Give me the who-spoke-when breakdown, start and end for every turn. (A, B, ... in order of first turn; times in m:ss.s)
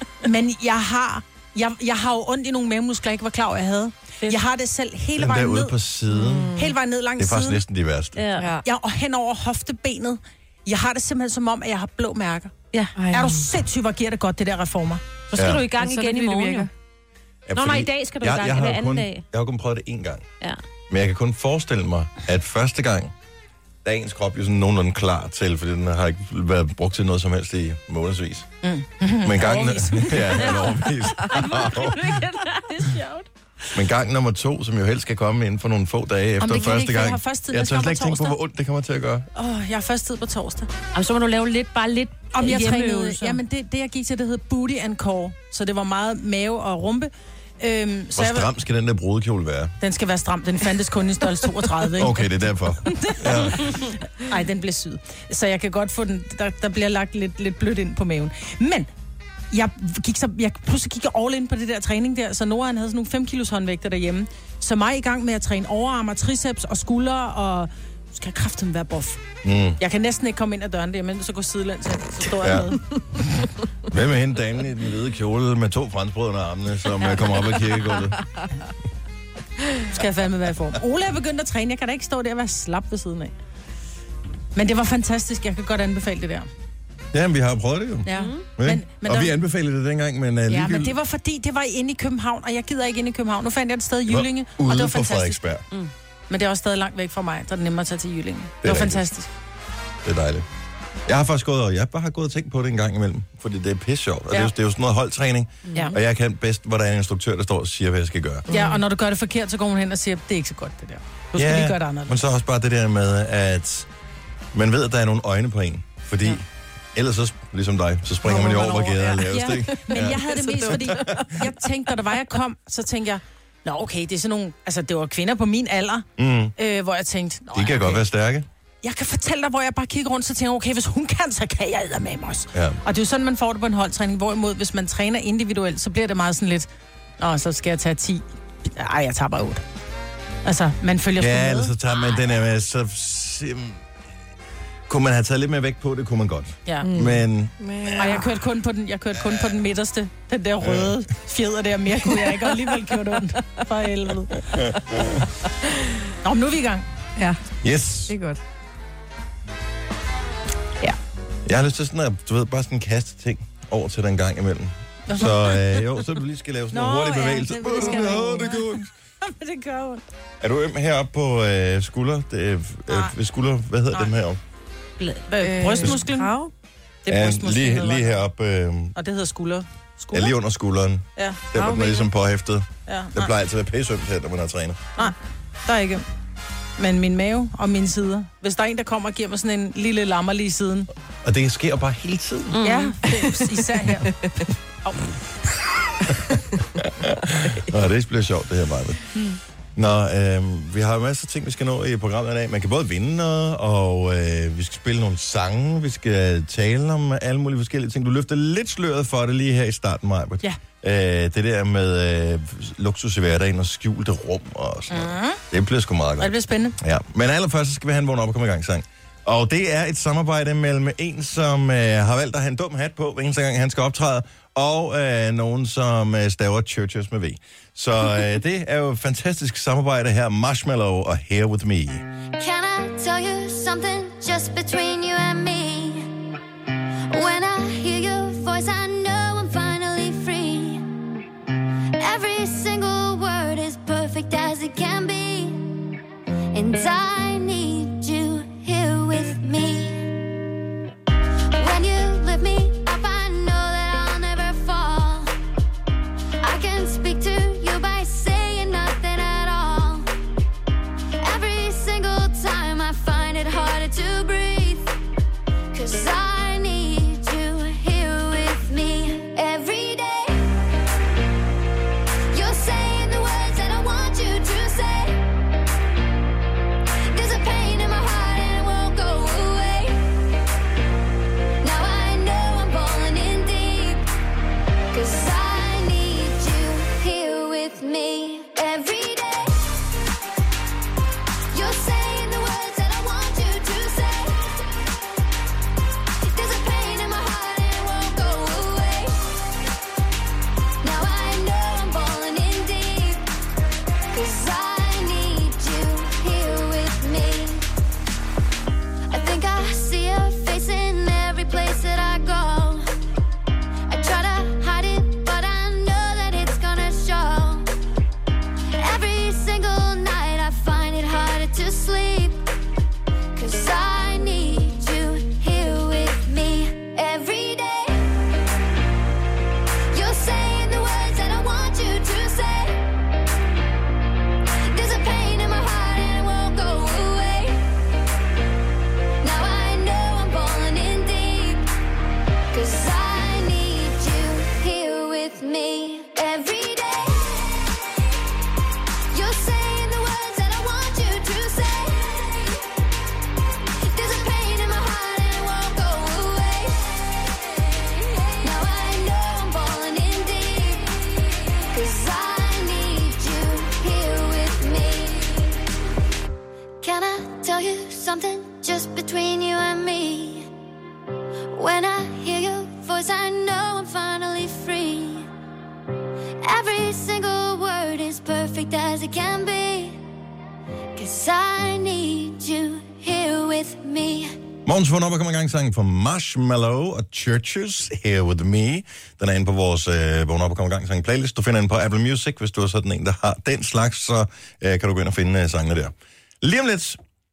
0:00.2-0:05.7 A
0:05.2-0:06.6 B
0:06.2-0:06.7 C
0:06.5-0:07.6 A
0:07.2-0:08.2 B
0:08.1-0:08.6 D
0:08.4-0:08.6 C
0:08.6-0:12.5 A
0:12.7-0:13.0 D
0:13.0-0:13.4 C
0:13.1-0:15.0 A
0:15.3-0:16.7 D
0:15.3-0:15.7 B
0:15.6-0:16.7 C
0:17.5-0:20.3 B
0:17.5-0:19.2 D
0:20.9-0:23.1 B
0:23.8-0:28.5 B
0:28.6-0:30.6 A
0:29.2-0:32.2 B
0:30.4-0:33.2 D
0:33.7-0:39.3 B
0:36.4-0:38.4 A
0:39.3-0:40.7 A
0:40.9-0:43.4 D
0:42.3-0:48.5 A
0:48.1-0:49.7 B
0:49.8-0:52.3 A
0:51.9-0:53.8 B
0:52.8-0:58.9 A
0:59.5-1:09.2 A
1:09.4-1:09.8 B
1:09.8-1:13.4 A
1:12.2-1:12.8 B
1:13.9-1:18.2 B
1:19.9-1:23.3 A
1:24.5-1:26.5 A
1:27.1-1:31.0 B
1:28.0-1:29.3 A
1:28.1-1:28.4 D
1:30.5-1:35.4 A
1:34.1-1:35.6 B
1:36.3-1:39.3 A
1:38.6-1:39.0 B
1:40.0-1:40.4 B
1:41.1-1:48.5 B
1:45.7-1:45.9 C
1:48.5-1:48.8 C
1:48.5-1:52.2 A
1:51.4-1:53.9 B
1:54.5-1:56.4 B
1:56.9-2:01.4 B
1:58.2-2:08.0 A
1:59.7-2:01.4 C
2:06.2-2:06.5 B
2:07.5-2:08.5 B
2:08.8-2:16.7 A
2:12.5-2:12.8 B
2:17.2-2:19.6 A
2:20.4-2:21.7 A
2:21.2-2:23.8 B
2:24.9-2:28.2 B
2:26.8-2:28.3 C
2:28.0-2:34.8 A
2:30.6-2:30.9 B
2:34.5-2:35.2 B
2:36.2-2:36.9 A
2:37.6-2:38.2 B
2:38.1-2:38.4 C
2:41.4-2:48.8 B
2:45.1-2:45.8 A
2:46.7-2:50.0 A
2:50.4-2:54.4 B
2:52.9-2:53.1 A
2:55.0-2:55.3 D
2:55.3-2:56.4 A
2:55.4-2:56.5 C
2:57.0-2:58.2 A
2:57.1-2:58.9 B
2:58.9-3:00.3 A
3:00.1-3:04.9 B
3:01.2-3:01.4 A
3:01.5-3:02.1 C
3:02.8-3:03.3 A
3:05.6-3:06.0 A
3:06.8-3:10.9 A
3:11.2-3:12.6 B
3:12.5-3:13.0 D
3:12.6-3:15.1 A
3:13.1-3:13.3 C
3:13.9-3:14.4 C
3:16.8-3:19.0 B
3:19.8-3:52.0 B
3:34.9-3:35.4 A
3:36.2-3:36.8 A
3:52.4-3:56.2 E
3:57.1-4:00.9 E
4:02.0-4:05.7 E
4:06.5-4:10.1 E
4:11.5-4:15.3 E
4:16.4-4:20.1 E
4:21.2-4:24.9 E
4:25.7-4:30.4 E
4:32.3-4:35.2 E
4:37.1-4:40.0 E
4:41.6-4:44.1 E
4:44.9-4:49.8 E
4:51.5-4:54.6 E
4:56.2-4:59.4 E
5:00.8-5:03.2 E
5:04.1-5:07.6 E
5:09.1-5:12.9 E
5:13.9-5:17.7 E
5:18.7-5:22.4 E
5:23.3-5:28.1 E
5:29.9-5:32.9 E
5:34.6-5:37.6 E
5:39.2-5:41.7 E
5:42.5-5:47.7 E
5:49.1-5:52.6 E
5:53.8-6:05.6 E
6:06.8-6:10.5 E
6:11.5-6:15.3 E
6:16.4-6:20.0 E
6:21.0-6:24.3 E
6:24.6-6:37.0 B